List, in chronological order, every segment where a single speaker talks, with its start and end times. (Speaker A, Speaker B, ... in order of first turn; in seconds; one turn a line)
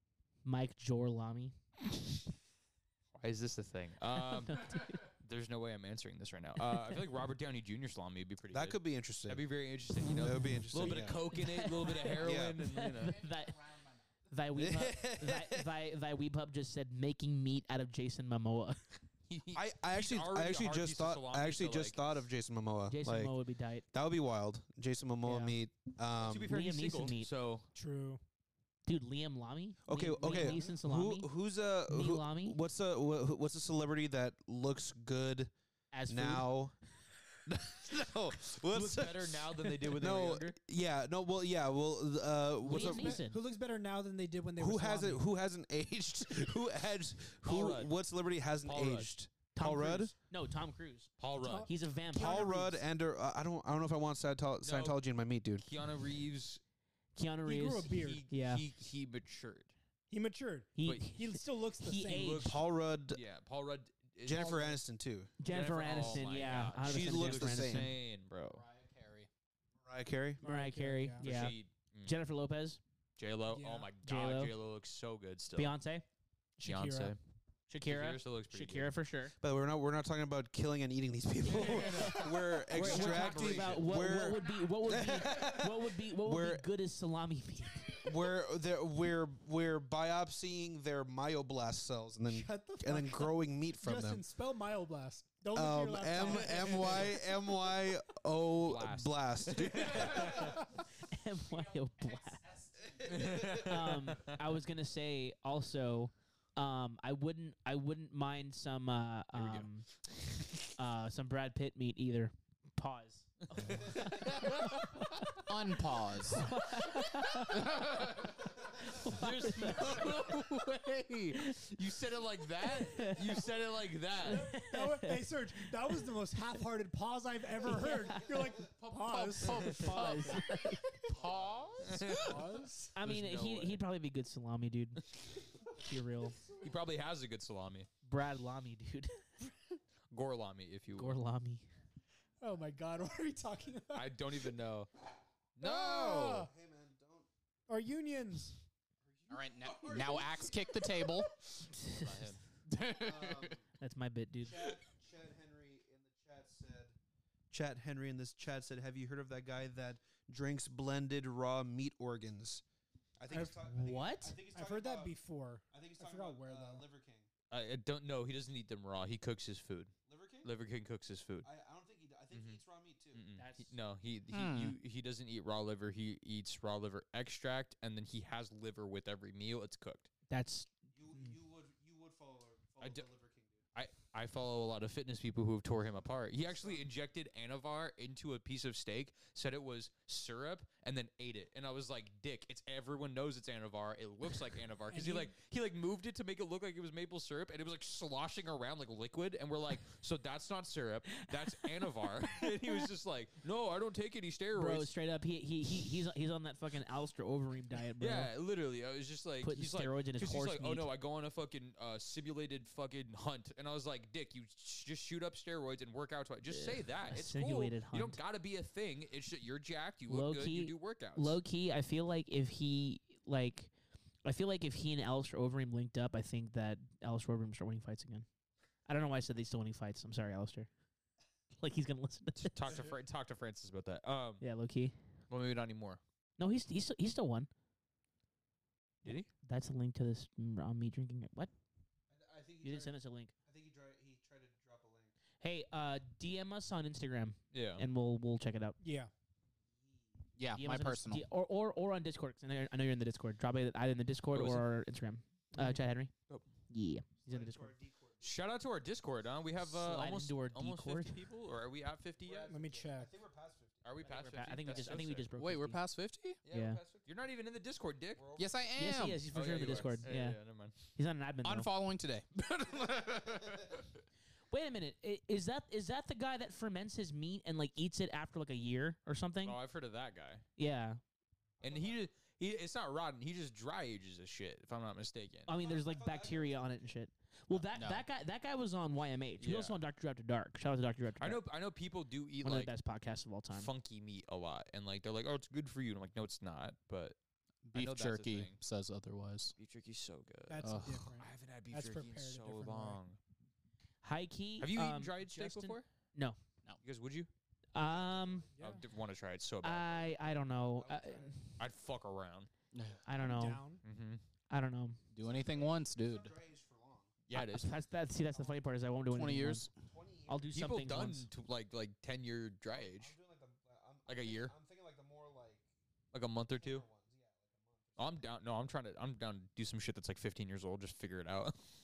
Speaker A: 0.5-1.6
Speaker B: 3.1-13.3
Speaker A: 4.5-5.0
Speaker C: 8.5-9.5
Speaker C: 10.0-11.2
Speaker A: 10.7-13.7
Speaker C: 12.2-12.6
Speaker D: 13.1-14.0
Speaker A: 14.3-18.9
Speaker C: 14.6-15.7
Speaker B: 19.3-22.0
Speaker C: 19.5-23.3
Speaker A: 22.9-23.9
Speaker C: 23.9-26.5
Speaker A: 25.2-25.6
Speaker B: 26.2-27.7
Speaker A: 26.5-27.3
Speaker E: 27.7-28.2
Speaker A: 28.9-31.3
Speaker C: 29.9-35.5
Speaker E: 30.3-30.8
Speaker A: 31.9-32.6
Speaker A: 35.9-36.5
Speaker C: 36.1-36.8
Speaker C: 37.5-43.2
Speaker B: 38.6-40.5
Speaker A: 42.6-43.4
Speaker E: 42.7-45.2
Speaker C: 44.6-50.1
Speaker B: 47.4-47.9
Speaker B: 48.6-49.1
Speaker A: 49.5-51.1
Speaker B: 51.2-51.7
Speaker E: 51.4-52.8
Speaker A: 51.7-52.5
Speaker C: 52.1-55.7
Speaker B: 54.6-55.0
Speaker B: 55.6-56.6
Speaker A: 57.2-58.6
Speaker E: 57.5-58.2
Speaker B: 57.9-59.7
Speaker E: 60.1-62.4
Speaker A: 60.8-62.5
Speaker B: 62.1-64.6
Speaker C: 62.4-63.2
Speaker C: 64.2-65.3
Speaker E: 64.3-64.8
Speaker A: 65.4-67.9
Speaker B: 65.5-68.6
Speaker C: 66.8-67.9
Speaker D: 68.5-69.3
Speaker C: 69.8-70.4
Speaker E: 70.4-71.5
Speaker A: 70.4-72.8
Speaker B: 71.2-72.1
Speaker B: 73.2-75.8
Speaker E: 73.5-73.9
Speaker A: 74.0-74.5
Speaker A: 75.5-76.0
Speaker E: 76.6-77.2
Speaker B: 76.6-77.2
Speaker A: 77.7-79.3
Speaker B: 77.9-79.0
Speaker C: 79.4-86.7
Speaker B: 81.5-83.9
Speaker A: 81.6-88.1
Speaker C: 88.0-94.2
Speaker E: 92.3-97.2
Speaker C: 95.5-100.6
Speaker B: 96.5-97.1
Speaker B: 98.6-100.7
Speaker A: 101.0-102.4
Speaker D: 101.5-103.3
Speaker C: 103.0-103.7
Speaker B: 103.1-104.4
Speaker A: 103.4-109.9
Speaker B: 109.3-109.7
Speaker A: 110.8-115.4
Speaker B: 113.7-114.8
Speaker D: 115.5-116.5
Speaker A: 116.3-117.7
Speaker D: 117.5-118.1
Speaker B: 117.6-118.4
Speaker A: 118.7-120.3
Speaker B: 118.9-124.5
Speaker D: 120.3-120.7
Speaker A: 121.3-121.7
Speaker A: 122.6-123.4
Speaker A: 124.2-126.0
Speaker E: 124.2-131.1
Speaker A: 127.7-128.2
Speaker D: 128.7-132.5
Speaker A: 129.7-131.1
Speaker B: 131.1-133.8
Speaker E: 132.1-132.9
Speaker A: 132.9-136.4
Speaker B: 136.6-137.9
Speaker A: 138.0-139.2
Speaker B: 140.1-141.2
Speaker A: 141.0-141.7
Speaker E: 142.4-144.5
Speaker B: 143.9-144.9
Speaker B: 145.6-146.5
Speaker E: 145.6-146.5
Speaker C: 146.2-147.3
Speaker E: 147.7-148.6
Speaker C: 149.1-150.9
Speaker D: 149.3-151.3
Speaker A: 151.7-152.3
Speaker B: 152.0-152.4
Speaker D: 152.7-153.6
Speaker C: 152.9-153.6
Speaker A: 153.8-154.7
Speaker C: 154.4-157.0
Speaker C: 157.5-162.6
Speaker C: 163.2-165.2
Speaker A: 163.3-164.4
Speaker E: 164.5-166.8
Speaker C: 165.7-167.3
Speaker B: 167.5-171.5
Speaker C: 170.1-170.5
Speaker C: 171.4-173.3
Speaker B: 172.3-172.6
Speaker B: 173.1-180.1
Speaker A: 173.4-173.7
Speaker D: 174.3-174.8
Speaker A: 180.3-181.3
Speaker C: 180.9-183.6
Speaker B: 182.8-183.1
Speaker B: 183.8-204.9
Speaker E: 194.9-195.3
Speaker A: 201.2-202.9
Speaker A: 204.5-208.3
Speaker B: 208.0-221.4
Speaker A: 209.4-210.9
Speaker A: 216.5-218.2
Speaker A: 220.1-223.7
Speaker A: 224.2-228.3
Speaker A: 228.9-230.7
Speaker A: 231.6-232.6
Speaker B: 232.4-234.4
Speaker A: 234.4-234.9
Speaker B: 235.3-236.0
Speaker A: 236.4-237.5
Speaker B: 239.0-239.3
Speaker A: 239.4-241.5
Speaker C: 242.1-242.9
Speaker A: 242.6-243.3
Speaker C: 243.5-245.1
Speaker A: 245.4-248.8
Speaker B: 247.5-247.8
Speaker E: 248.8-249.1
Speaker D: 250.4-251.3
Speaker A: 250.5-256.1
Speaker B: 254.3-254.7
Speaker A: 256.7-257.7
Speaker C: 257.2-258.3
Speaker B: 258.2-262.5
Speaker A: 259.8-261.2
Speaker C: 262.2-265.0
Speaker E: 262.5-263.1
Speaker B: 263.8-265.3
Speaker A: 264.0-265.8
Speaker D: 265.4-266.4
Speaker C: 266.4-267.1
Speaker A: 266.5-266.8
Speaker B: 266.8-268.3
Speaker C: 268.2-268.8
Speaker D: 268.4-269.3
Speaker A: 268.8-270.4
Speaker B: 269.3-270.8
Speaker A: 271.0-271.7
Speaker D: 271.4-273.6
Speaker C: 272.7-273.8
Speaker A: 274.5-279.6
Speaker B: 279.4-280.4
Speaker A: 280.6-281.0
Speaker C: 281.6-282.1
Speaker B: 281.6-285.5
Speaker A: 285.5-291.4
Speaker C: 285.6-286.8
Speaker D: 287.7-288.1
Speaker B: 289.4-289.8
Speaker B: 291.2-292.7
Speaker A: 292.4-293.7
Speaker B: 293.5-297.2
Speaker D: 297.6-299.5
Speaker B: 297.7-298.6
Speaker B: 299.6-303.2
Speaker E: 300.5-303.0
Speaker D: 300.6-301.1
Speaker A: 304.0-306.4
Speaker B: 304.6-305.9
Speaker B: 306.8-307.3
Speaker A: 307.7-308.5
Speaker C: 307.8-308.6
Speaker E: 308.6-308.8
Speaker B: 308.6-310.0
Speaker A: 309.6-311.6
Speaker C: 309.9-311.4
Speaker B: 311.6-312.5
Speaker D: 312.7-313.0
Speaker A: 313.1-313.7
Speaker E: 313.2-313.8
Speaker B: 313.8-314.2
Speaker A: 314.5-315.0
Speaker D: 315.1-316.3
Speaker C: 315.2-317.1
Speaker B: 317.3-317.8
Speaker A: 317.3-319.7
Speaker D: 319.1-319.7
Speaker C: 319.8-320.6
Speaker A: 320.3-321.3
Speaker B: 320.5-323.1
Speaker C: 322.7-325.7
Speaker B: 324.1-324.6
Speaker B: 326.1-326.9
Speaker C: 326.6-328.2
Speaker B: 328.0-331.5